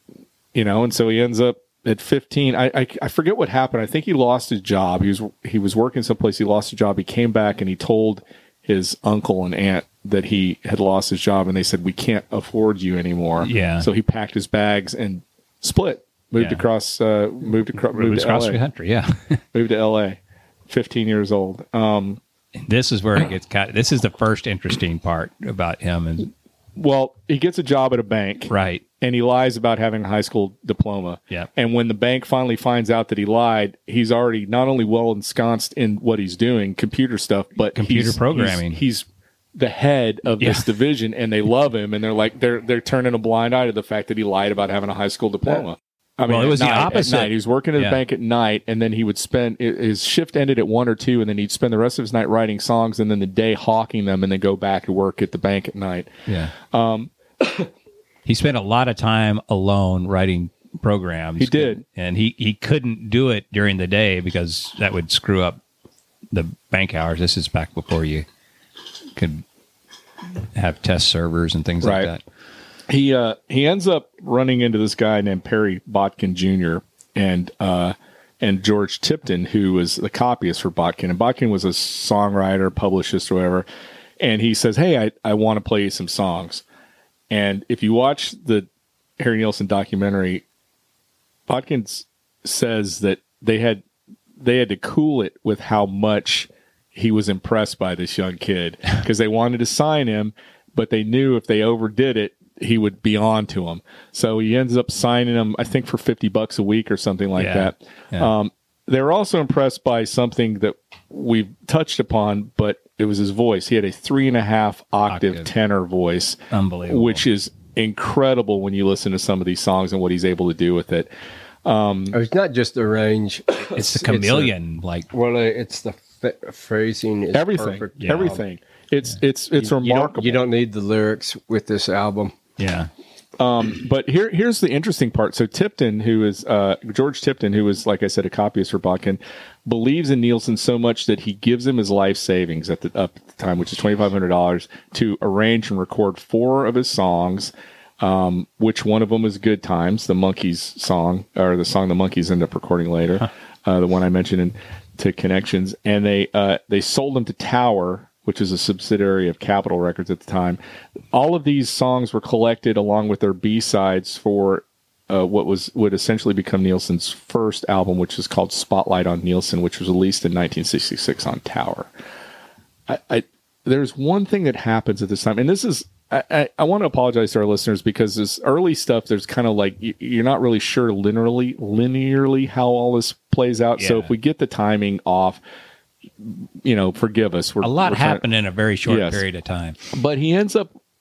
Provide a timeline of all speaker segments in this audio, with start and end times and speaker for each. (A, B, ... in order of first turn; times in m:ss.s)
0:00.5-0:18.6 A
0:13.4-0:13.9 B
0:17.9-0:19.4 B
0:19.5-0:22.2 A
0:22.6-0:26.3 B
0:26.8-0:57.1 A
0:28.5-0:28.8 B
0:37.8-0:38.8 B
0:40.4-0:40.7 B
0:46.3-0:48.0 B
0:56.3-0:56.5 B
0:58.3-1:05.6 B
1:01.4-1:01.8 A
1:06.3-1:08.3 B
1:09.2-1:09.4 B
1:10.5-1:12.2 B
1:11.8-1:12.1 A
1:12.9-1:23.7 A
1:24.2-1:26.6 A
1:27.3-1:28.7 A
1:29.2-1:30.4 A
1:31.5-1:33.8 A
1:34.4-2:01.1 A
1:47.4-1:48.3 B
1:55.1-1:55.5 B
1:56.5-1:57.2 B
2:01.6-2:02.2 A
2:02.1-2:04.5 C
2:03.7-2:05.1 B
2:05.1-2:08.4 C
2:07.3-2:10.4 A
2:08.0-2:08.4 B
2:09.6-2:12.3 C
2:12.6-2:12.9 B
2:13.4-2:40.6 A
2:41.1-2:51.9 A
2:52.9-3:05.4 A
3:03.8-3:04.1 B
3:06.2-3:08.2 A
3:07.6-3:09.8 B
3:08.9-3:09.2 A
3:09.9-3:10.7 A